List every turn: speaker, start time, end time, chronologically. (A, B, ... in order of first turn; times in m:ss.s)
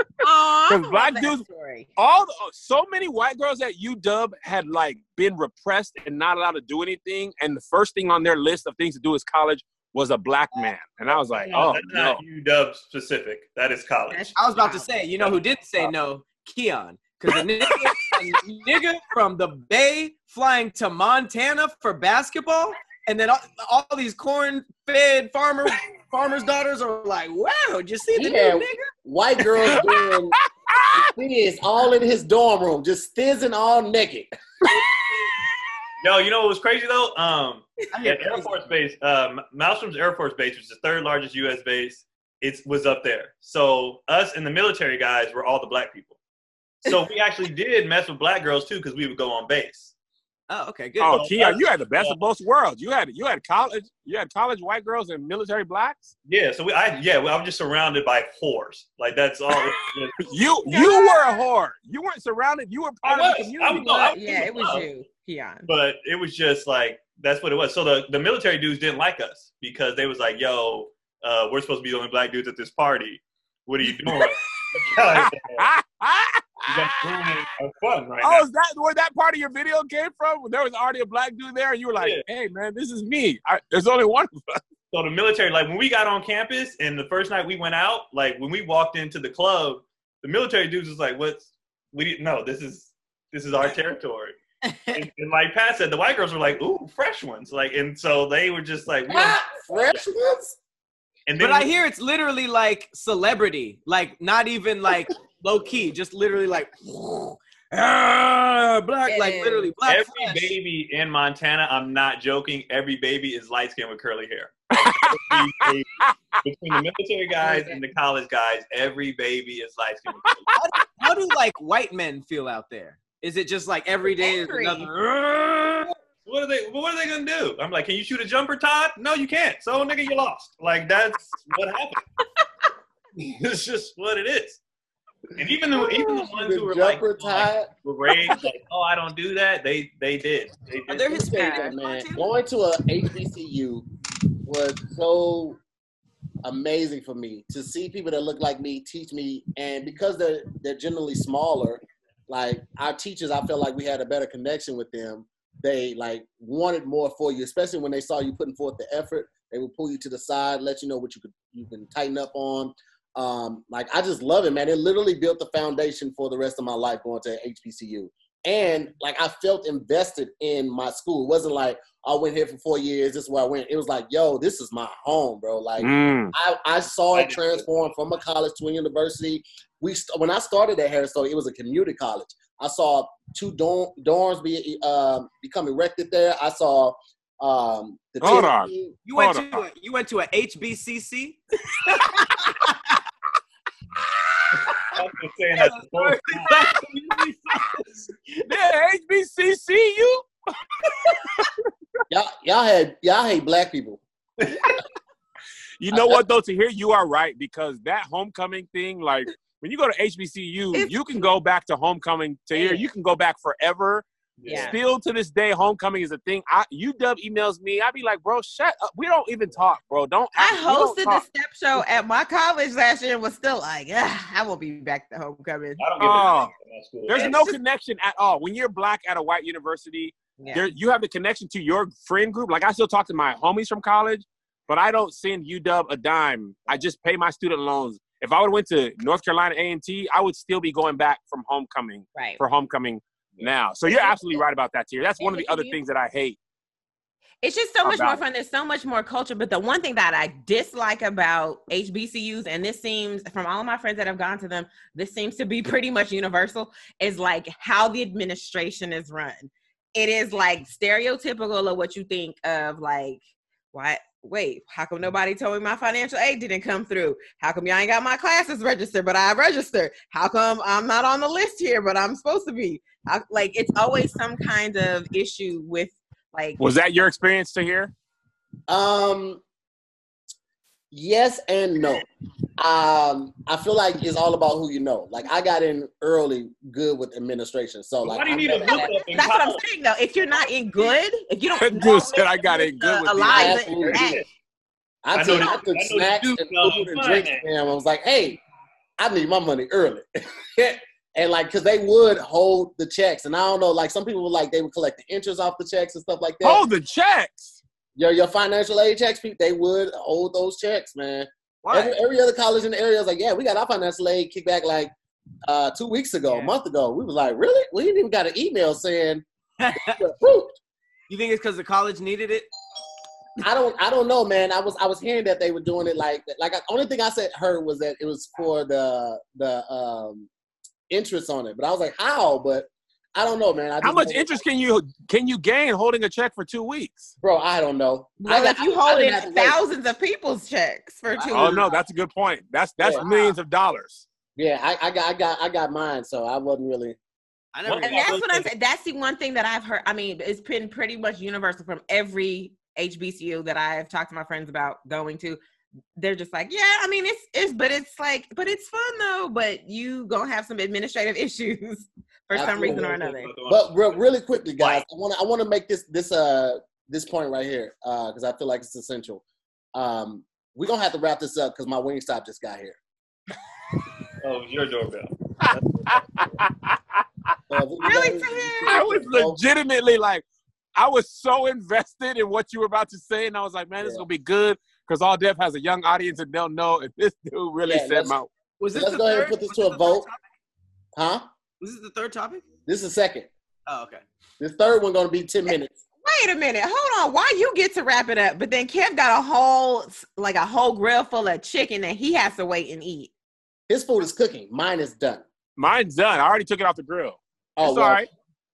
0:00.2-0:01.9 A
0:00.7-0:01.4 B
0:02.0-0:12.2 B
0:11.4-0:14.4 C
0:14.1-0:14.9 A
0:14.3-0:28.8 D
0:28.1-0:30.3 E
0:30.3-0:31.1 B
0:30.9-0:34.3 E
0:36.0-0:46.2 C
0:37.9-0:38.5 D
0:46.8-0:49.9 C
0:50.5-0:51.3 D
0:51.0-0:56.1 B
0:51.1-0:52.2 C
0:56.2-1:00.3 C
1:00.2-1:04.1 B
1:00.7-1:01.4 A
1:03.0-1:04.8 C
1:03.9-1:05.7 A
1:05.7-1:15.6 C
1:13.8-1:17.5 B
1:16.7-1:18.4 C
1:18.2-1:24.6 B
1:22.0-1:22.2 C
1:24.9-1:34.4 C
1:34.7-1:35.0 D
1:34.9-1:40.0 C
1:39.1-1:40.6 E
1:41.3-1:41.7 C
1:41.4-1:50.5 D
1:49.0-1:49.7 A
1:49.8-2:00.5 C
1:54.7-1:56.4 B
1:57.4-1:57.8 A
2:00.2-2:00.6 B
2:00.5-2:05.8 D
2:04.1-2:04.9 A
2:06.2-2:12.0 C
2:13.2-2:14.6 C
2:15.3-2:21.2 C
2:15.7-2:17.7 E
2:20.9-2:22.3 D
2:21.1-2:23.9 E
2:21.3-2:21.7 A
2:24.4-2:25.6 E
2:26.4-3:09.0 E
2:55.8-2:56.3 B
2:57.1-2:57.7 C
3:08.2-3:09.6 B
3:09.0-3:13.0 D
3:14.7-3:16.6 C
3:15.5-3:18.4 D
3:16.5-3:16.8 B
3:18.5-3:20.3 B
3:21.1-3:21.6 B
3:22.1-3:24.0 E
3:25.8-3:41.2 B
3:25.9-3:26.2 E
3:30.7-3:31.2 A
3:32.5-3:32.9 A
3:34.4-3:34.8 C
3:34.5-3:34.8 A
3:40.3-3:45.9 A
3:45.8-3:47.4 C
3:46.0-3:46.5 B
3:47.1-4:06.4 B
3:47.1-3:47.6 A
3:50.4-3:50.7 A
4:02.1-4:02.4 A
4:03.9-4:04.4 A
4:05.2-4:05.8 A
4:07.4-4:23.2 A
4:07.8-4:08.2 B
4:23.7-4:36.6 A
4:36.6-4:37.9 B
4:38.7-4:39.4 E
4:40.9-4:42.0 E
4:42.6-4:49.0 E
4:48.0-4:49.6 C
4:48.7-4:54.2 A
4:51.6-4:53.6 B
4:53.3-4:54.2 E
4:53.7-4:54.2 C
4:55.0-4:58.4 E
4:55.1-4:57.4 C
4:55.3-4:55.6 A
4:59.0-5:06.6 E
5:06.4-5:07.6 B
5:08.0-5:14.9 E
5:11.6-5:12.0 D
5:15.4-5:20.6 E
5:19.6-5:20.0 D
5:21.1-5:22.5 D
5:23.4-5:30.3 E
5:30.9-5:34.4 E
5:33.8-5:37.1 B
5:37.2-5:39.6 E
5:38.2-5:41.7 A
5:41.1-5:41.8 D
5:41.3-5:44.0 B
5:42.8-5:43.0 E
5:43.0-5:43.4 D
5:44.4-5:47.0 E
5:47.5-5:48.5 D
5:47.6-5:48.2 C
5:47.8-5:55.4 A
5:56.0-6:03.4 A
6:02.3-6:02.9 E
6:02.3-6:04.0 C
6:03.4-6:09.2 E
6:04.6-6:04.8 C
6:09.7-6:12.8 E
6:14.2-6:16.3 C
6:15.4-6:17.4 B
6:17.5-6:19.4 E
6:17.8-6:18.8 A
6:18.6-6:20.2 B
6:20.8-6:28.3 B
6:27.6-6:28.2 E
6:28.6-6:30.2 D
6:28.7-6:30.0 E
6:30.9-6:31.2 E
6:31.6-6:32.4 D
6:32.6-6:33.3 E
6:33.7-6:34.0 D
6:34.4-6:35.8 E
6:36.0-6:43.1 A
6:43.7-6:45.2 E
6:45.6-6:48.1 B
6:47.6-6:48.0 E